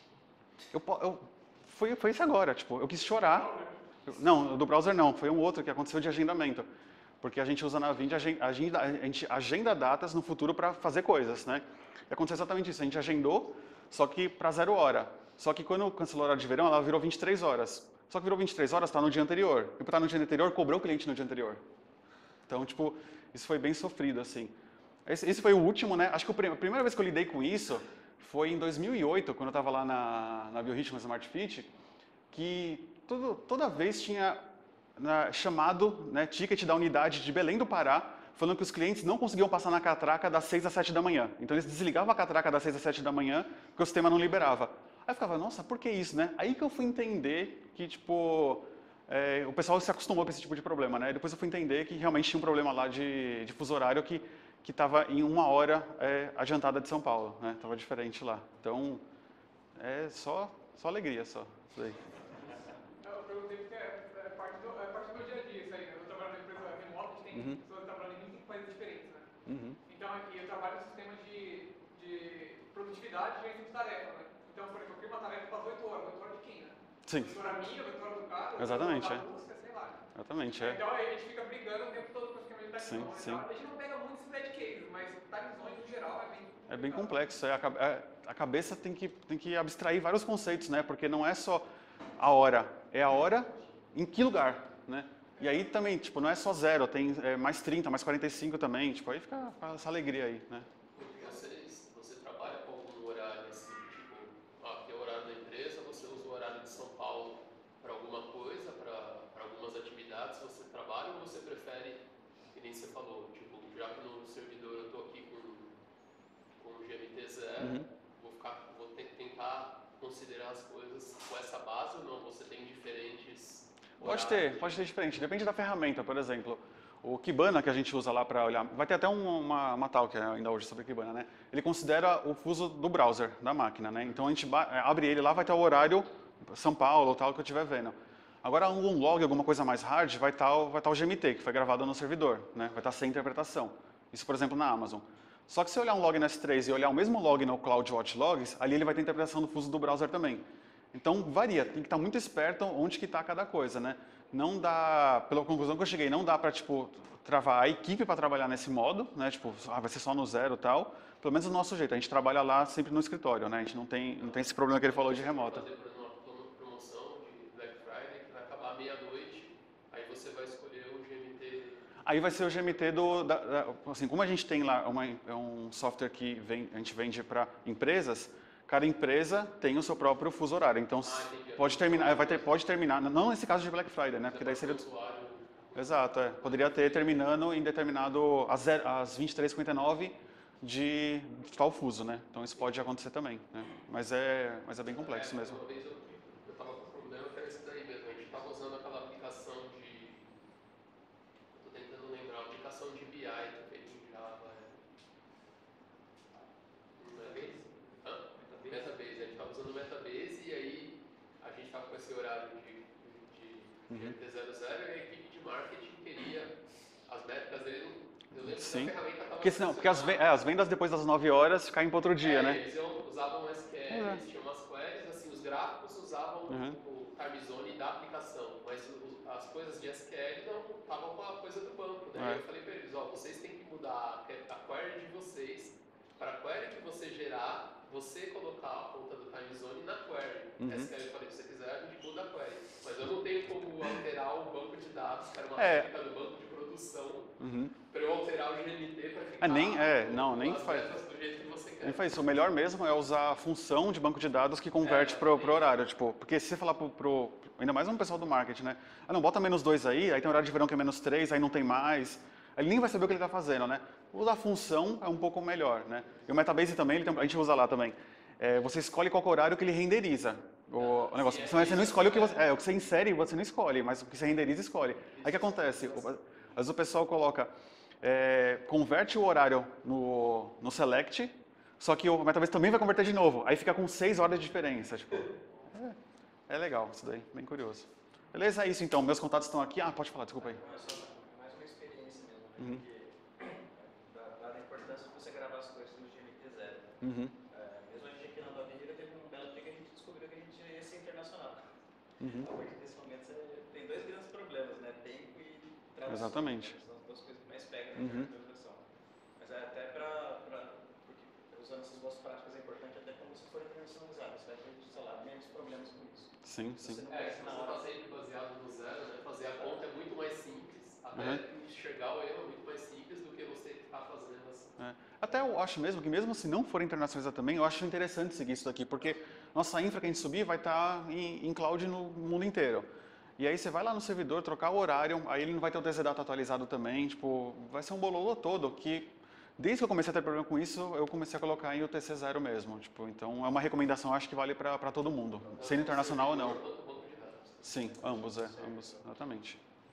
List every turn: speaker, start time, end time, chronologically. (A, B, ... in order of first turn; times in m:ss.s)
0:00.7-0:03.5 A
0:03.0-0:03.7 B
0:04.0-0:06.7 A
0:07.2-0:21.6 A
0:22.5-0:24.5 A
0:25.0-0:31.7 A
0:32.3-0:34.4 A
0:35.0-0:59.0 A
0:59.8-1:02.0 A
1:03.0-1:09.3 B
1:07.3-1:07.6 A
1:09.4-1:09.8 A
1:09.8-1:20.0 B
1:17.0-1:17.4 A
1:18.6-1:19.2 A
1:20.1-1:20.8 A
1:20.6-1:27.2 B
1:22.8-1:23.4 A
1:26.7-1:31.6 A
1:32.2-1:40.7 A
1:40.9-1:52.0 C
1:52.5-1:55.7 C
1:56.6-2:04.8 C
1:57.6-1:57.9 A
2:04.0-2:45.6 A
2:44.2-2:51.8 C
2:52.0-3:04.8 A
3:01.0-3:02.6 C
3:04.2-3:07.1 C
3:05.7-3:15.6 A
3:14.9-3:20.3 C
3:21.5-3:24.8 C
3:27.0-3:36.5 C
3:33.9-3:34.2 A
3:37.0-3:40.3 C
3:38.3-3:42.6 A
3:42.2-4:07.4 C
3:43.9-3:44.2 A
3:46.5-3:46.8 A
3:52.1-3:52.4 A
4:00.6-4:00.9 A
4:05.6-4:05.9 A
4:07.4-4:07.7 A
4:07.9-4:12.2 C
4:09.4-4:10.9 A
4:11.8-4:46.0 A
4:14.8-4:15.8 C
4:30.8-4:32.5 C
4:35.2-4:36.2 C
4:46.5-4:50.6 A
4:50.4-5:01.7 D
4:57.0-4:57.3 A
5:02.2-5:02.5 A
5:02.3-5:08.8 D
5:06.0-5:06.8 A
5:08.0-5:08.3 A
5:09.4-5:17.8 D
5:16.4-5:17.0 A
5:17.0-5:24.7 C
5:21.1-5:21.4 A
5:24.8-5:46.6 A
5:45.5-5:48.2 C
5:47.6-5:49.6 A